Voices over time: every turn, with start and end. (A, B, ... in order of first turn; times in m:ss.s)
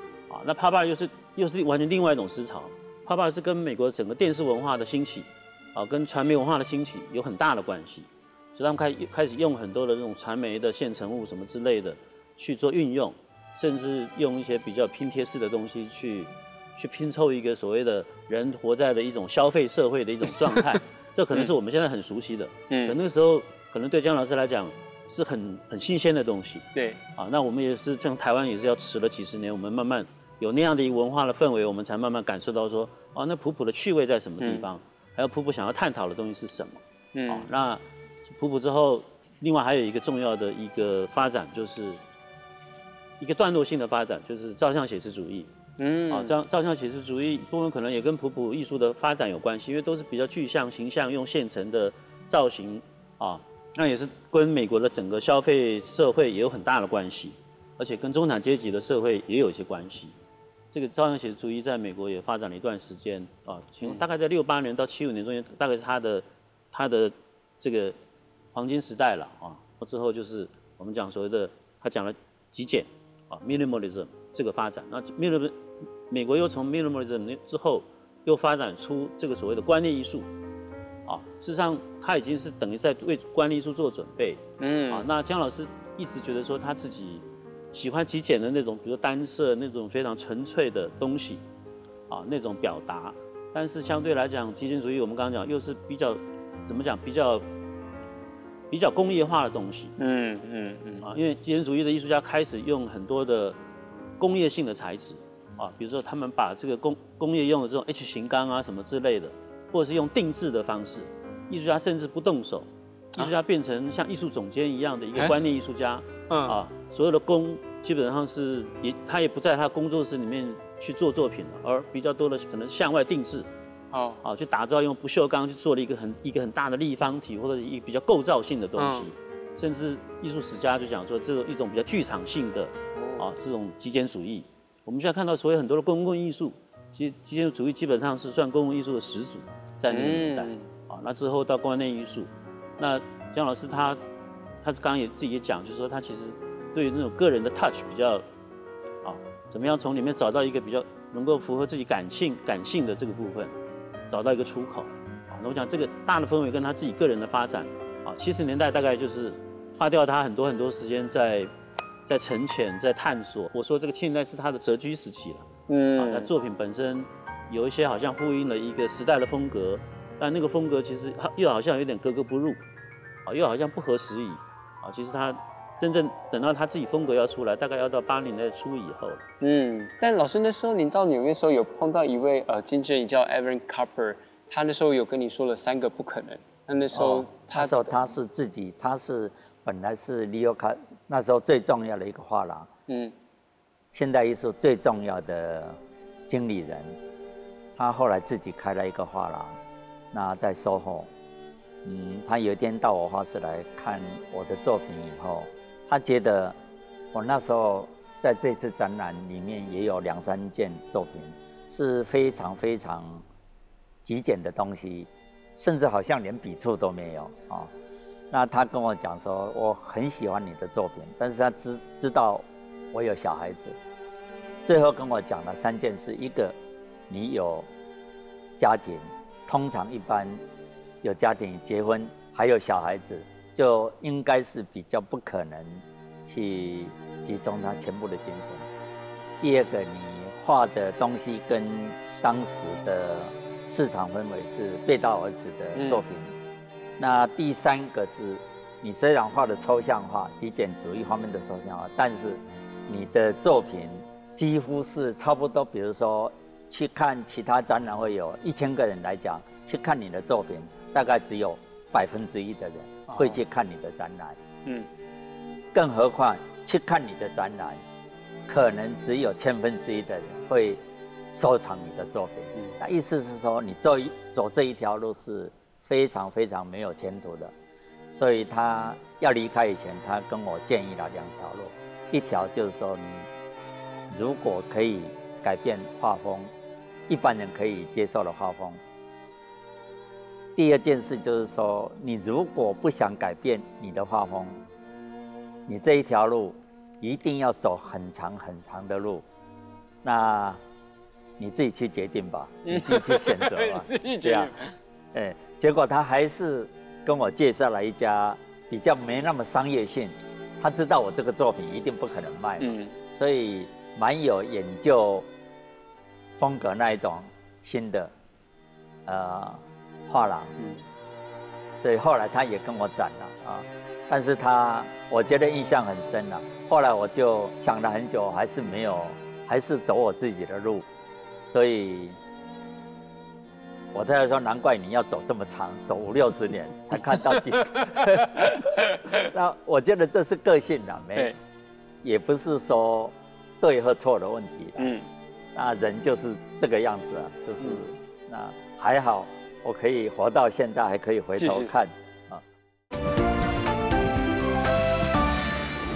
0:00.3-0:26.6 A
0:20.5-0:20.8 B
0:22.7-0:23.0 B
0:26.7-0:27.0 B
0:27.2-0:42.0 A
0:34.4-0:34.7 B
0:37.1-0:37.5 B
0:43.2-0:45.5 A
0:45.8-0:46.4 B
0:46.1-1:00.1 A
1:00.7-1:07.9 A
1:08.5-1:20.3 A
1:21.0-1:31.4 A
1:24.6-1:25.0 B
1:32.1-1:37.4 A
1:38.7-1:39.9 A
1:40.0-1:41.1 B
1:41.0-1:43.6 A
1:44.2-2:03.5 A
1:56.3-1:56.6 B
2:03.9-2:04.2 B
2:04.2-2:24.0 A
2:08.8-2:09.1 B
2:13.0-2:13.3 B
2:19.9-2:20.7 B
2:24.6-2:28.2 A
2:29.0-2:33.5 A
2:34.1-2:41.5 A
2:42.1-2:52.6 A
2:45.7-2:46.3 B
2:53.2-2:59.2 A
2:59.4-3:08.0 B
3:06.9-3:12.7 C
3:12.9-3:13.1 B
3:13.9-3:17.0 C
3:17.8-3:19.6 C
3:20.1-3:21.1 C
3:21.8-3:26.6 C
3:27.1-3:33.2 C
3:34.0-3:37.7 C
3:38.3-3:43.8 C
3:44.6-3:46.6 C
3:47.1-3:47.7 C
3:48.6-3:50.4 C
3:51.0-3:58.7 C
3:59.4-4:06.3 C
4:05.7-4:06.0 B
4:07.0-4:24.4 C
4:23.1-4:23.4 B
4:25.7-4:27.8 C
4:28.5-4:30.8 C
4:31.3-4:37.5 C
4:38.1-4:43.3 C
4:44.1-4:46.5 C
4:47.1-4:48.8 C
4:50.6-4:54.6 C
4:55.6-4:59.2 C
5:00.0-5:00.6 C
5:01.4-5:04.5 C
5:02.6-5:04.7 B
5:05.1-5:15.3 C
5:12.6-5:12.9 B
5:16.4-5:18.1 C
5:19.0-5:20.6 C
5:21.8-5:30.8 C
5:31.4-5:32.2 C
5:33.9-5:41.4 C
5:37.1-5:39.3 B
5:42.0-5:44.9 C
5:44.8-5:45.1 B
5:45.5-5:52.4 C
5:51.4-5:51.7 B